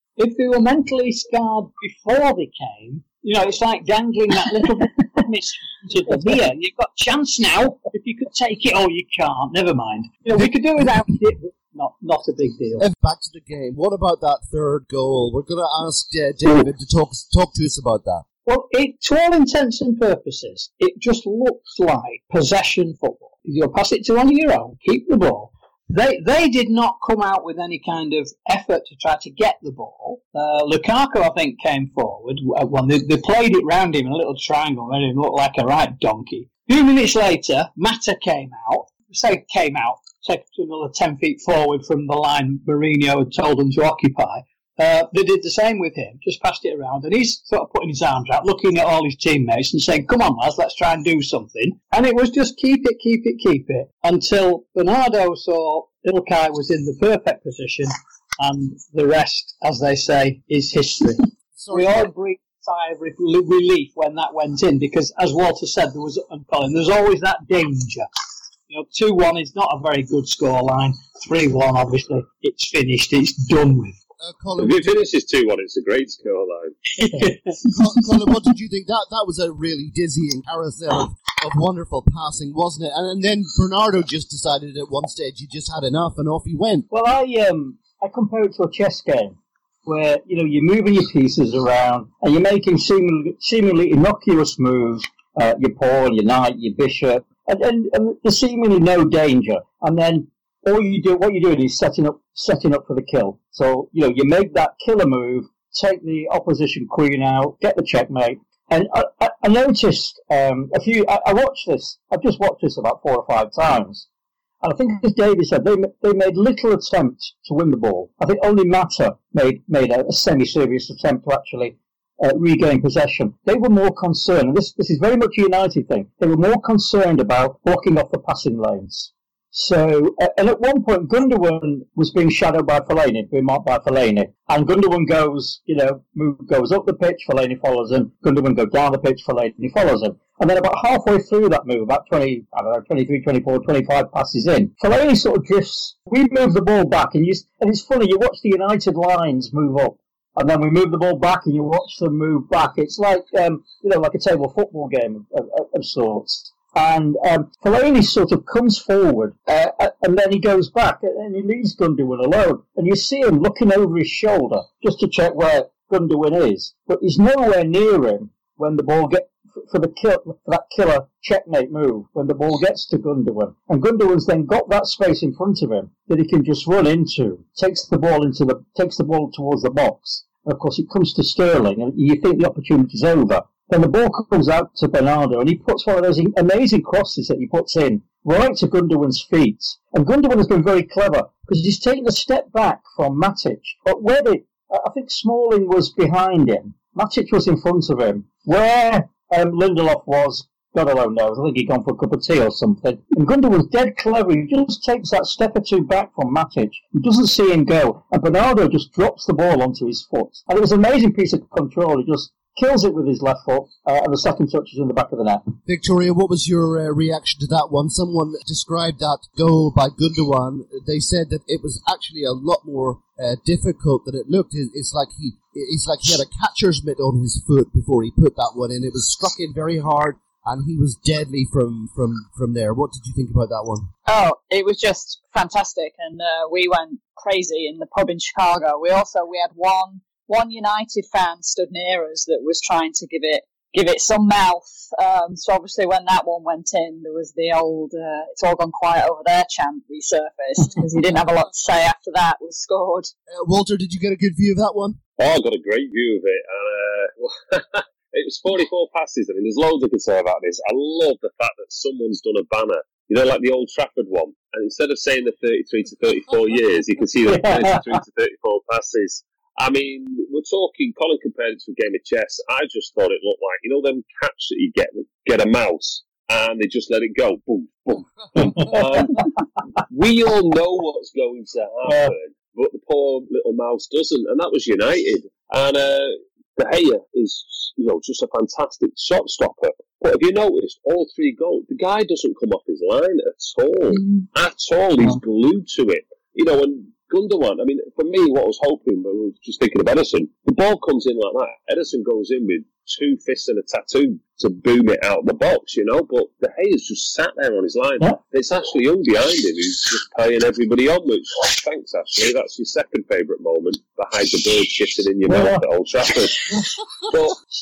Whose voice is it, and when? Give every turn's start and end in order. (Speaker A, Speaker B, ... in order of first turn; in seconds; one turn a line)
Speaker A: 0.2-12.8
Speaker B: 12.8-18.2
Speaker A: 18.4-61.2
Speaker B: 61.6-62.1
Speaker A: 61.7-68.1
Speaker A: 68.7-74.0
Speaker B: 74.2-74.9
Speaker C: 74.6-76.8
Speaker A: 77.0-77.6
Speaker B: 77.7-86.9
Speaker D: 86.9-114.0
Speaker D: 114.6-215.5
Speaker B: 215.6-233.9
Speaker E: 234.1-253.1
Speaker B: 253.3-255.0
Speaker C: 255.2-279.3
Speaker D: 267.3-267.8
Speaker D: 278.4-279.2
Speaker C: 279.8-317.4
Speaker D: 281.9-282.1
Speaker D: 315.2-315.6